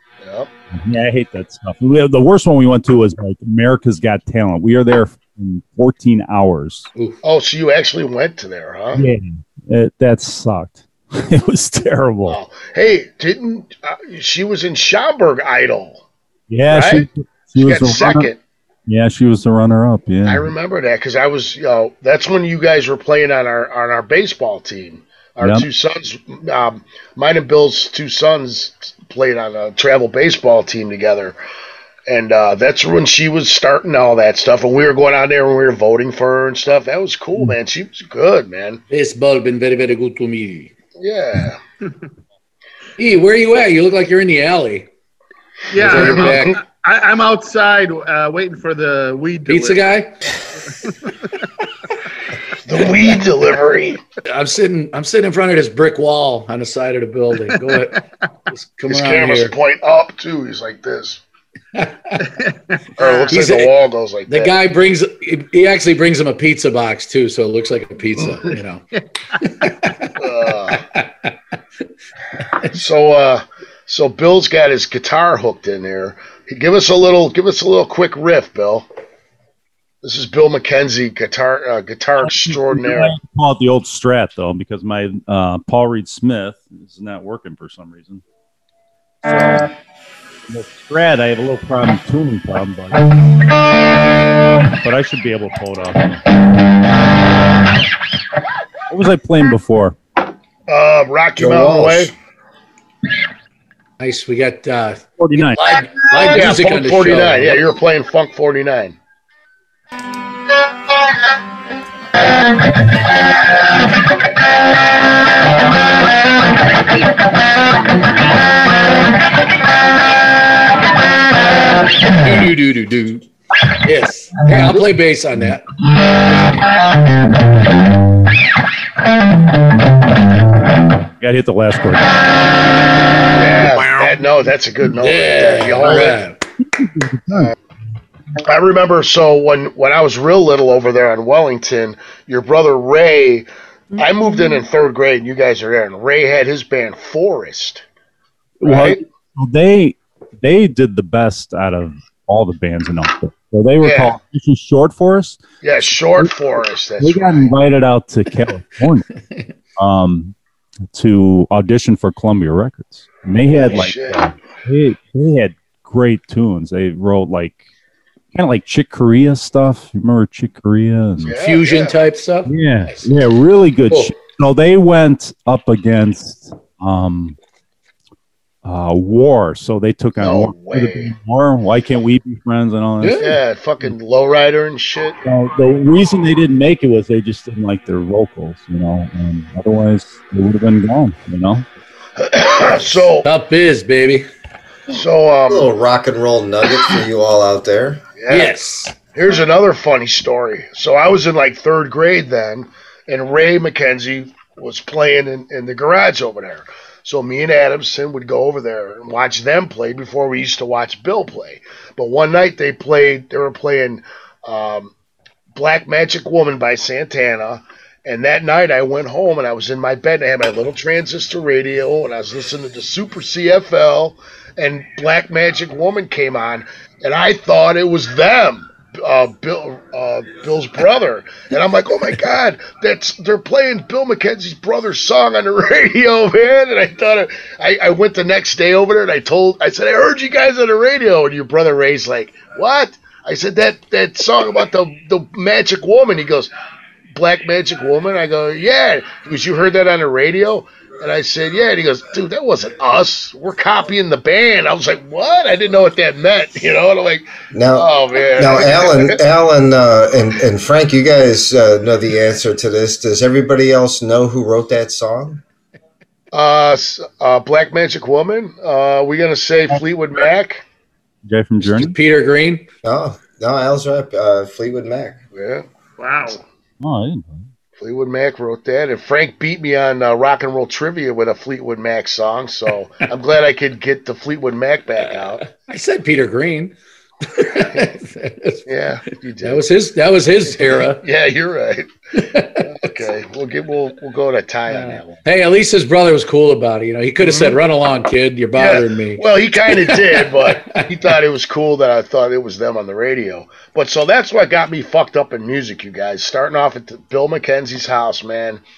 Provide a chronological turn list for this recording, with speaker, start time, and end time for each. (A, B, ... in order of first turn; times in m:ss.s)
0:00.2-0:00.5 A
0:00.7-0:06.9 B
0:07.2-0:09.0 A
0:08.9-0:12.4 B
0:12.3-0:16.0 A
0:16.5-0:18.3 B
0:16.7-0:18.4 A
0:18.9-0:20.5 B
0:20.3-0:31.4 A
0:25.4-0:25.7 B
0:32.1-0:38.8 A
0:38.9-0:40.7 C
0:41.0-0:41.6 A
0:43.0-0:44.9 C
0:45.7-0:49.9 D
0:45.8-0:46.4 A
0:45.8-0:46.6 C
0:49.5-0:50.2 C
0:50.7-0:51.1 D
0:52.6-0:54.0 A
0:54.3-0:59.5 C
0:57.6-0:57.9 D
0:58.9-1:01.2 A
1:01.7-1:02.2 C
1:02.2-1:03.3 D
1:03.0-1:04.5 A
1:03.3-1:03.8 C
1:04.3-1:08.8 C
1:09.4-1:10.2 C
1:10.2-1:10.8 A
1:10.7-1:11.3 C
1:12.5-1:12.8 C
1:12.7-1:18.9 A
1:20.0-1:23.2 A
1:22.2-1:28.2 B
1:29.2-1:29.7 B
1:30.5-1:33.0 B
1:34.8-1:36.2 B
1:38.9-1:40.0 B
1:40.7-1:42.1 A
1:41.4-1:42.1 E
1:44.0-1:47.6 C
1:45.2-1:45.6 B
1:46.2-1:49.0 A
2:02.1-2:03.2 C
2:03.8-2:05.7 C
2:11.2-2:12.2 B
2:13.3-2:16.2 A
2:13.8-2:14.1 C
2:14.9-2:16.4 C
2:16.6-2:17.5 B
2:18.4-2:27.8 A
2:28.6-2:36.3 B
2:28.6-2:29.0 A
2:33.8-2:34.2 A
2:35.6-2:37.5 A
2:37.0-2:39.1 B
2:39.8-2:40.4 B
2:40.9-2:47.6 B
2:43.5-2:44.3 A
2:48.3-2:51.4 B
2:51.2-2:52.0 A
2:51.4-2:53.1 C
2:52.5-2:57.4 B
2:58.6-3:03.3 B
3:00.2-3:01.1 A
3:03.0-3:03.4 C
3:03.2-3:05.2 A
3:05.2-3:11.7 B
3:12.2-3:13.3 A
3:13.2-3:14.3 C
3:14.9-3:15.7 A
3:15.5-3:18.0 E
3:18.2-3:18.6 A
3:18.3-3:18.9 C
3:19.1-3:34.9 A
3:35.5-4:06.5 A
4:07.1-4:19.2 A
4:17.5-4:25.4 E
4:26.3-4:30.6 A
4:31.3-4:32.0 B
4:31.6-4:32.7 C
4:32.8-4:35.2 E
4:35.3-4:35.7 A
4:36.0-4:36.4 D
4:36.8-4:37.5 B
4:37.8-4:45.4 A
4:45.5-4:48.7 C
4:48.7-4:49.6 A
4:49.4-4:51.0 C
4:50.8-4:51.9 A
4:52.2-4:52.9 C
4:52.6-4:55.2 A
4:54.7-5:00.9 C
4:57.2-4:57.6 A
4:58.6-5:08.6 A